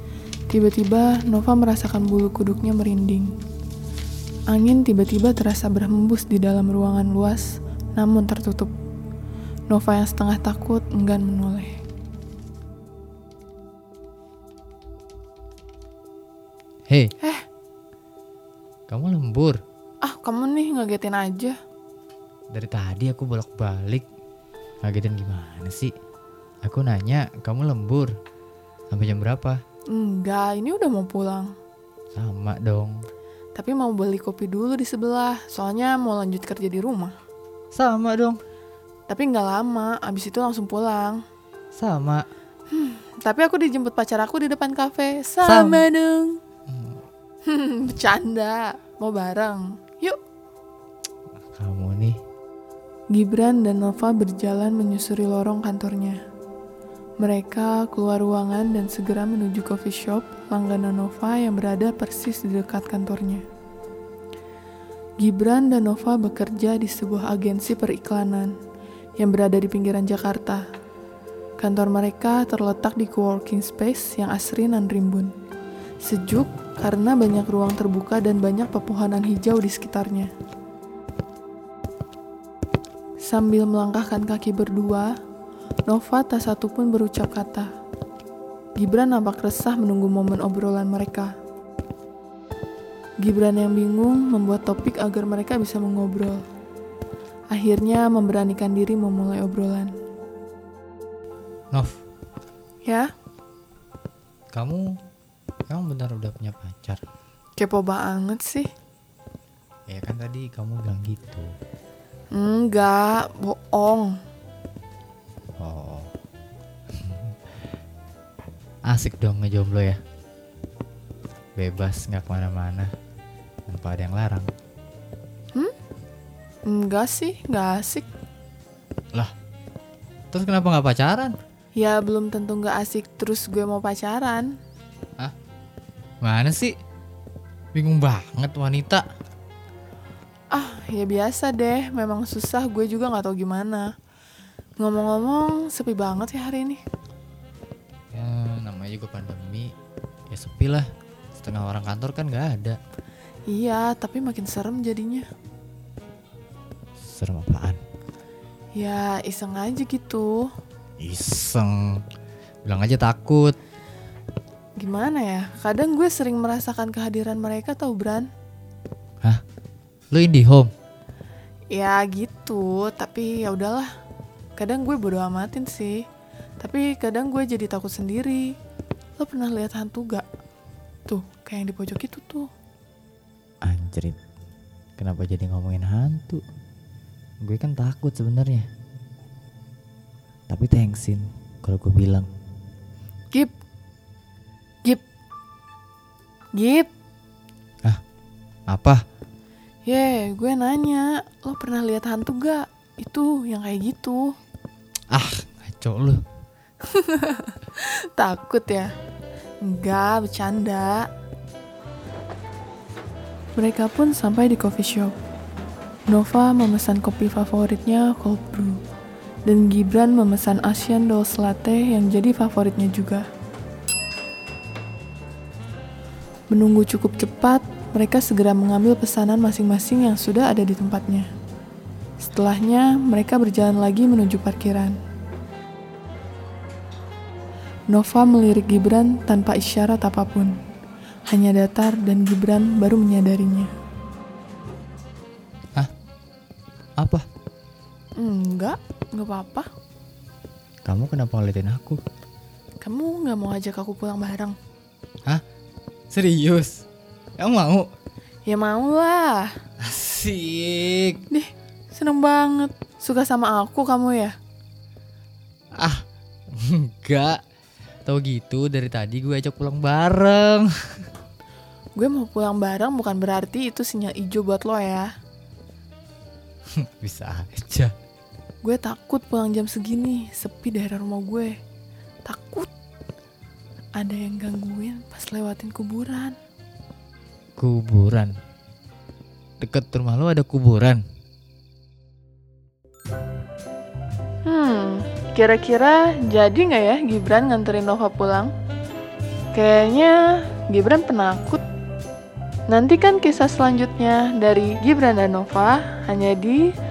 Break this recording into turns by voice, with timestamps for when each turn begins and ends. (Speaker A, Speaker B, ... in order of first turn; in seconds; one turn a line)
Speaker A: 0.5-3.3
Speaker A: 4.5-8.7
Speaker A: 9.7-11.8
Speaker B: 18.9-19.6
Speaker A: 20.0-21.6
Speaker B: 22.5-24.1
Speaker B: 24.8-25.9
Speaker B: 26.6-28.1
Speaker B: 28.9-29.6
Speaker A: 29.9-31.5
Speaker B: 32.1-33.1
Speaker A: 33.5-37.1
Speaker B: 37.7-38.4
Speaker A: 39.1-41.2
Speaker B: 41.7-42.3
Speaker A: 42.7-46.4
Speaker B: 45.4-45.9
Speaker B: 46.7-47.0
Speaker A: 47.4-50.2
Speaker B: 51.5-52.2
Speaker A: 53.1-56.2
Speaker A: 57.2-63.4
Speaker A: 65.2-68.5
Speaker A: 69.2-70.6
Speaker A: 71.6-75.3
Speaker A: 76.0-80.3
Speaker A: 83.2-85.1
Speaker A: 85.9-87.7
Speaker A: 88.8-91.3
Speaker A: 93.2-96.4
Speaker A: 97.5-99.9
Speaker A: 102.8-103.1
Speaker B: 104.5-105.0
Speaker B: 105.7-107.0
Speaker A: 107.6-108.7
Speaker B: 109.9-111.5
Speaker A: 112.3-114.2
Speaker B: 115.6-116.1
Speaker B: 117.0-117.3
Speaker B: 118.9-120.0
Speaker B: 121.6-122.9
Speaker B: 123.7-124.5
Speaker A: 126.7-128.1
Speaker B: 130.3-131.3
Speaker A: 131.7-134.6
Speaker B: 136.2-136.7
Speaker B: 137.7-139.0
Speaker A: 140.5-143.9
Speaker A: 144.8-146.8
Speaker B: 148.1-149.7
Speaker B: 150.3-152.8
Speaker A: 153.5-155.3
Speaker B: 157.0-157.8
Speaker A: 158.7-160.5
Speaker B: 161.0-162.0
Speaker B: 162.7-163.6
Speaker A: 164.8-168.3
Speaker B: 170.1-170.7
Speaker A: 171.7-173.9
Speaker A: 174.6-176.0
Speaker A: 176.6-178.6
Speaker A: 179.2-180.2
Speaker A: 181.1-182.5
Speaker B: 183.6-184.2
Speaker B: 185.0-186.4
Speaker B: 187.4-188.7
Speaker B: 190.5-192.3
Speaker A: 196.5-196.9
Speaker B: 198.7-199.0
Speaker A: 199.8-204.3
Speaker B: 205.1-206.2
Speaker A: 206.8-208.9
Speaker A: 209.6-211.1
Speaker A: 213.6-215.1
Speaker A: 216.1-218.8
Speaker A: 219.4-223.2
Speaker A: 226.5-231.3
Speaker A: 232.2-235.0
Speaker A: 237.9-240.5
Speaker A: 241.3-243.7
Speaker B: 247.0-247.2
Speaker A: 248.2-249.7
Speaker B: 250.8-252.0
Speaker A: 252.8-254.5
Speaker B: 256.1-256.9
Speaker B: 257.4-257.9
Speaker A: 258.4-259.5
Speaker B: 259.8-261.2
Speaker A: 261.3-264.3
Speaker B: 265.8-267.4
Speaker B: 268.0-271.1
Speaker A: 271.9-275.1
Speaker B: 276.8-277.9
Speaker A: 278.6-281.5
Speaker A: 282.2-282.7
Speaker A: 284.0-286.4
Speaker B: 287.6-288.4
Speaker B: 289.6-291.0
Speaker A: 294.4-298.5
Speaker A: 299.5-301.6
Speaker A: 302.7-306.7